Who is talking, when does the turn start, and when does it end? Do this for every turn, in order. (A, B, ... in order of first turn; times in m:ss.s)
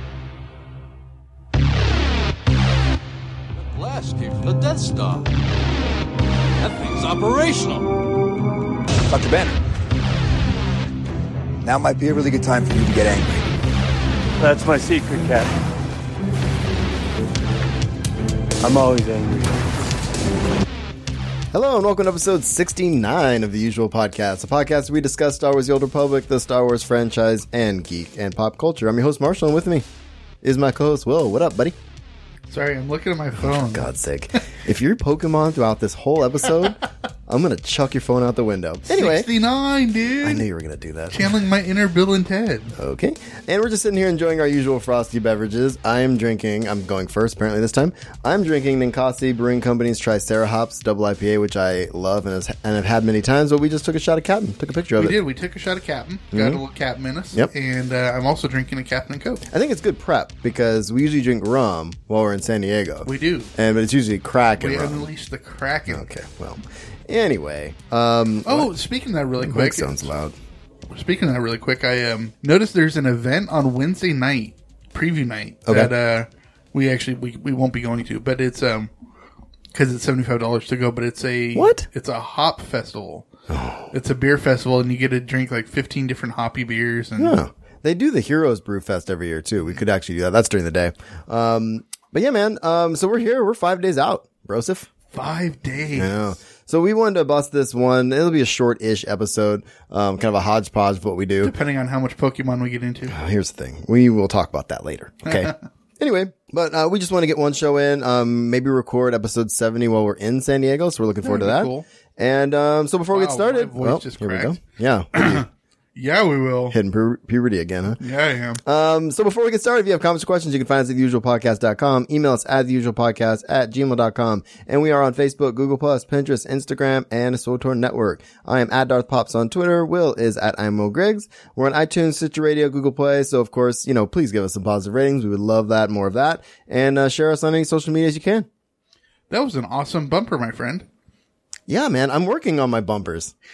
0:03.5-0:05.3 A
0:06.6-0:07.9 A
0:09.1-0:09.5 B
0:11.6-0:13.4 B
0:14.4-0:15.5 C
0:18.6-0:19.7 C
0:21.5-0:29.8 D
0:30.4-0:31.8 D
0:32.5-0:33.9 E
0:33.4-0:39.3 D
0:38.9-0:40.4 E
0:40.2-0:41.2 D
0:41.1-0:42.7 E
0:42.8-0:55.2 D
0:55.0-0:59.4 E
0:56.3-0:56.6 D
0:59.5-1:05.1 D
1:03.0-1:03.5 E
1:04.6-1:06.1 E
1:05.9-1:08.7 D
1:08.4-1:10.1 E
1:09.4-1:10.3 D
1:10.9-1:18.9 E
1:15.6-1:15.9 D
1:19.7-1:23.3 E
1:21.5-1:21.9 D
1:23.5-1:23.9 D
1:23.9-1:27.4 E
1:27.2-1:34.9 D
1:35.1-1:36.3 E
1:36.0-1:41.5 D
1:41.4-1:43.1 E
1:43.1-1:55.4 D
1:45.2-1:45.5 E
1:51.2-1:51.8 E
1:53.1-1:54.6 E
1:55.1-1:56.8 E
1:56.7-1:58.0 D
1:58.0-1:58.6 E
1:58.6-2:18.5 D
2:19.3-2:20.9 E
2:21.7-2:23.3 D